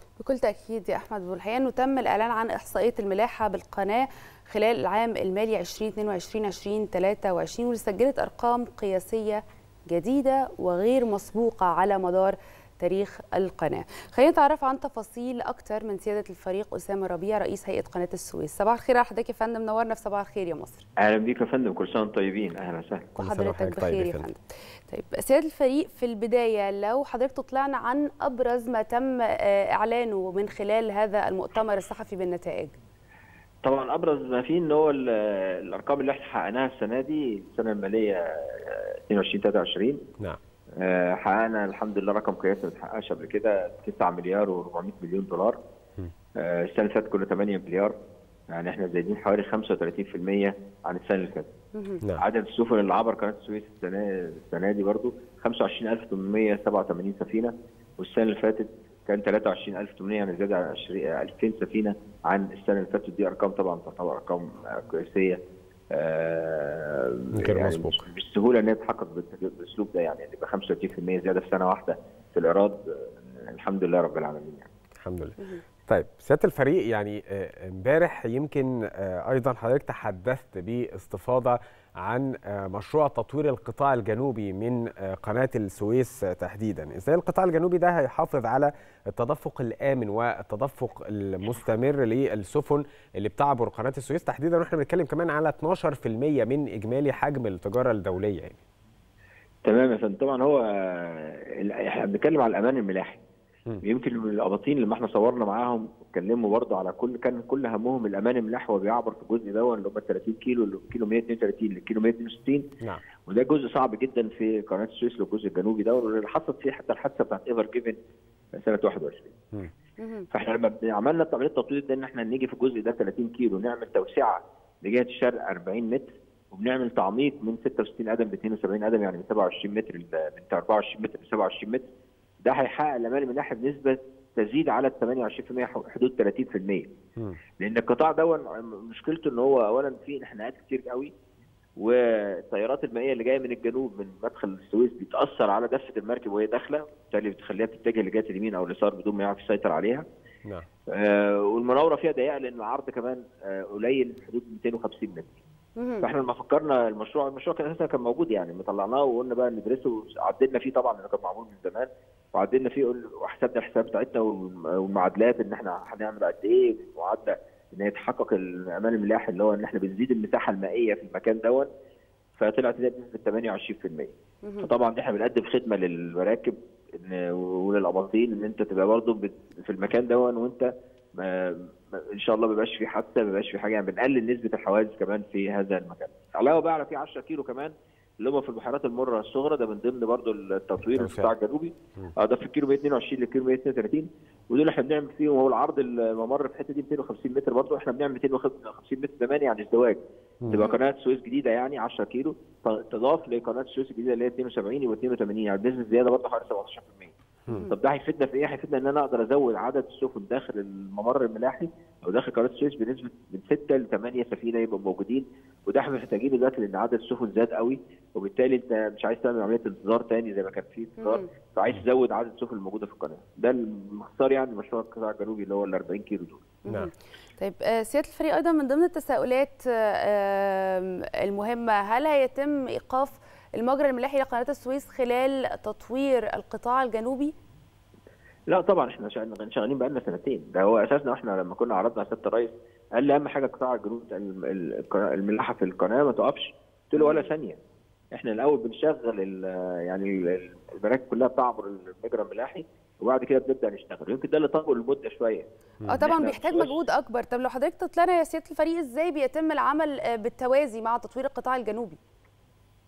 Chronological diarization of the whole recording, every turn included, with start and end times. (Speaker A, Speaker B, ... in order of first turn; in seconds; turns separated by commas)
Speaker A: 0.2-20.8, Speaker B: 21.0-23.1, Speaker A: 23.2-32.7, Speaker C: 23.2-24.3, Speaker B: 33.6-40.0, Speaker B: 40.8-45.6, Speaker B: 46.4-47.9, Speaker B: 48.5-51.5, Speaker A: 51.8-52.0, Speaker B: 52.2-65.4, Speaker B: 65.9-74.7, Speaker C: 67.3-68.0, Speaker C: 75.0-98.6, Speaker B: 99.6-103.2, Speaker B: 103.8-112.6, Speaker B: 113.2-118.0, Speaker B: 118.6-119.3, Speaker A: 120.0-120.3, Speaker B: 120.3-131.8, Speaker B: 132.4-136.9, Speaker B: 137.6-141.1, Speaker B: 141.8-150.0, Speaker B: 150.9-155.3, Speaker A: 155.8-156.1, Speaker B: 156.0-171.7, Speaker B: 172.4-207.2, Speaker A: 174.4-174.7, Speaker C: 190.9-191.3, Speaker A: 200.5-200.8, Speaker A: 207.5-207.8, Speaker B: 207.7-226.5, Speaker A: 221.0-221.3, Speaker A: 226.7-237.3, Speaker B: 238.5-247.6, Speaker A: 246.9-247.3, Speaker B: 248.1-256.7, Speaker A: 255.9-262.0